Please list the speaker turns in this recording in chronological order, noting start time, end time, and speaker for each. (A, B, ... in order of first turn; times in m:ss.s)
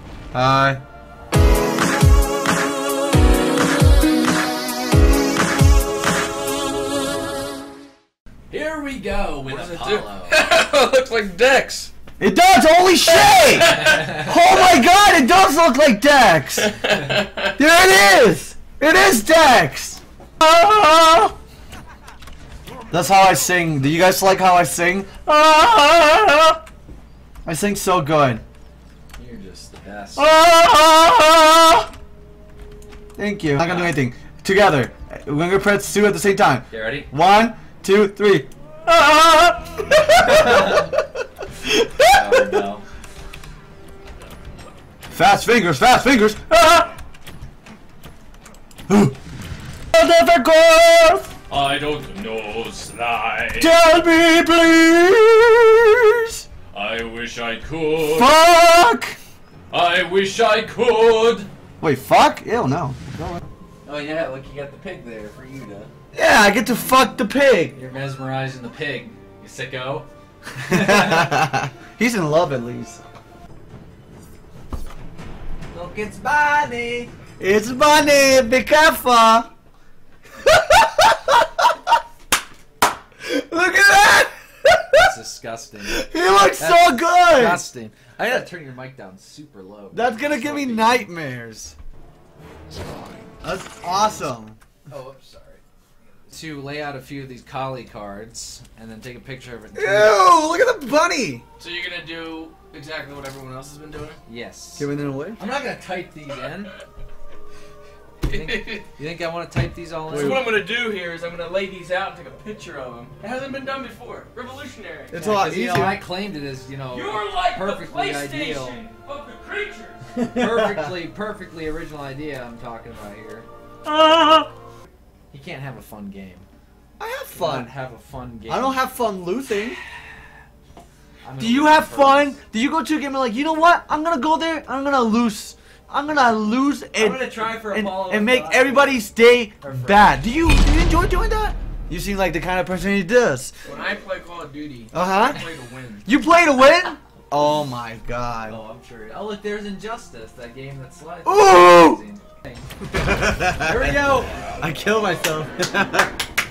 0:00.3-0:00.8 A
0:08.5-0:10.4 B
0:09.5-0:11.9 C
0:12.2-0:16.7 A
0:13.1-0:14.8 C
0:13.8-0:14.3 B
0:16.6-0:17.6 C
0:17.6-0:21.3 A
0:22.9-0:26.6 A
0:27.4-0:28.4 A
0:29.2-0:30.4 B
0:30.2-0:31.9 A
0:33.2-0:40.9 A
0:33.6-0:34.0 B
0:36.7-0:37.1 B
0:40.2-0:40.9 B
0:41.7-0:42.5 A
0:42.0-0:42.8 B
0:45.1-0:46.9 A
0:48.9-0:49.2 A
0:49.9-0:51.3 A
0:51.5-0:53.7 B
0:53.6-0:56.4 A
0:56.7-0:58.3 B
0:58.0-0:59.2 A
0:59.7-1:01.5 B
1:01.8-1:03.4 A
1:03.8-1:05.9 B
1:06.1-1:07.8 A
1:07.8-1:10.1 B
1:10.6-1:11.4 B
1:10.6-1:13.0 A
1:15.7-1:17.1 B
1:17.4-1:19.5 A
1:20.5-1:21.4 A
1:23.2-1:25.1 A
1:25.0-1:31.1 B
1:25.8-1:27.6 A
1:29.9-1:31.8 A
1:33.4-1:34.6 A
1:34.9-1:35.6 B
1:36.3-1:40.2 B
1:39.8-1:41.4 A
1:41.6-1:44.2 C
1:44.3-1:46.7 B
1:44.8-1:45.4 A
1:48.2-1:48.9 C
1:48.3-1:50.5 B
1:50.1-1:50.5 A
1:50.1-1:55.2 C
1:55.1-1:56.0 A
1:55.2-1:58.8 B
1:56.9-2:00.1 C
2:00.2-2:01.0 A
2:00.2-2:03.5 B
2:03.8-2:04.5 A
2:05.3-2:06.5 B
2:07.0-2:07.7 A
2:07.3-2:08.8 B
2:08.5-2:09.8 A
2:11.2-2:12.4 B
2:11.4-2:23.5 A
2:17.0-2:19.0 B
2:19.6-2:20.2 B
2:23.6-2:26.0 C
2:24.9-2:25.4 A
2:26.0-2:28.6 A
2:28.5-2:32.7 B
2:31.2-2:32.0 A
2:32.9-2:34.1 A
2:33.5-2:34.3 B
2:34.6-2:36.1 A